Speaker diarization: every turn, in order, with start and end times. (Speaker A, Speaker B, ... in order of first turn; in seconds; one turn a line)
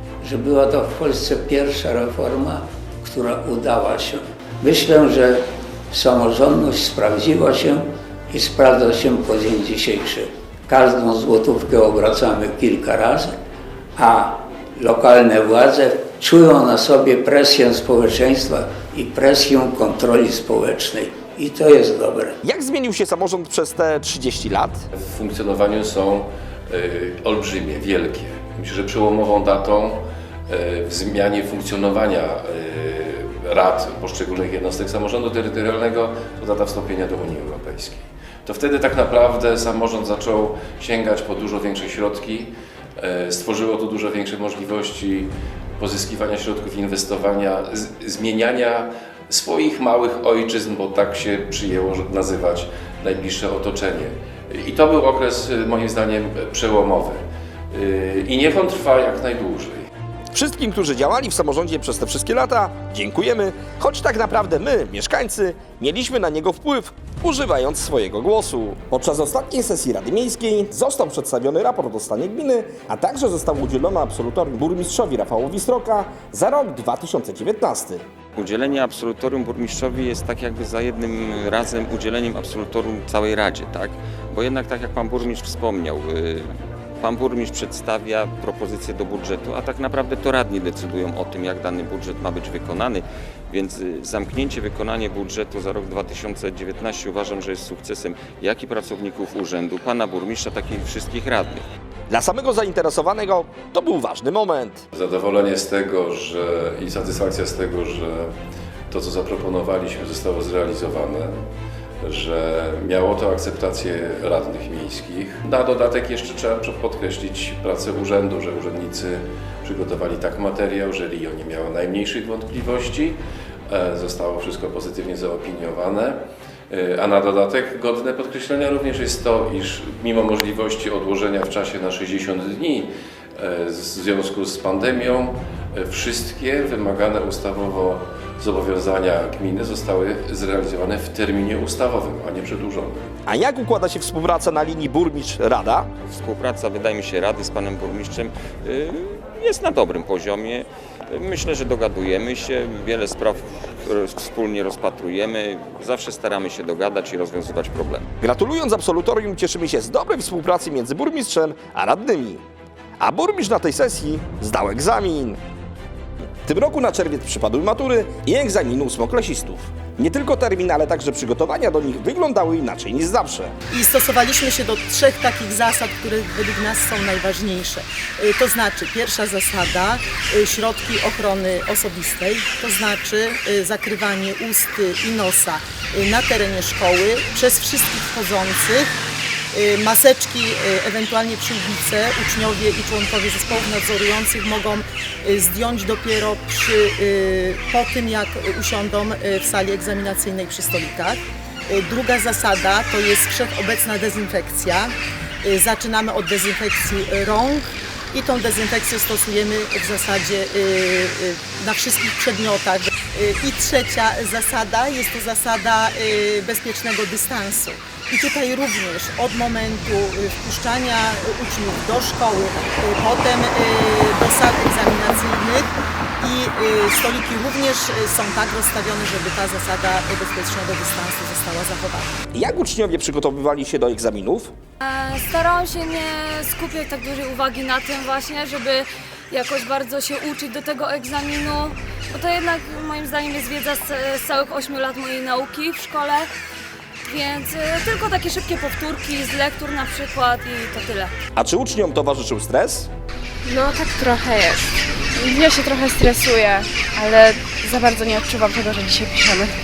Speaker A: 0.2-13.3
Speaker A: 13.9-22.4
Speaker B: 22.4-24.8
Speaker C: 24.9-59.9
Speaker B: 60.3-78.0
Speaker D: 78.4-86.5
Speaker D: 87.0-101.6
Speaker B: 102.1-104.8
Speaker C: 104.9-108.3
Speaker C: 108.9-111.3
Speaker C: 112.0-126.2
Speaker C: 126.7-143.1
Speaker B: 143.3-145.9
Speaker D: 146.1-158.1
Speaker B: 158.2-162.4
Speaker B: 163.0-165.4
Speaker B: 166.4-173.5
Speaker E: 173.7-188.9
Speaker E: 189.5-232.1
Speaker B: 232.3-234.5
Speaker F: 234.8-246.3
Speaker F: 247.1-251.1
Speaker B: 251.3-252.9
Speaker G: 253.5-254.6
Speaker G: 255.2-259.5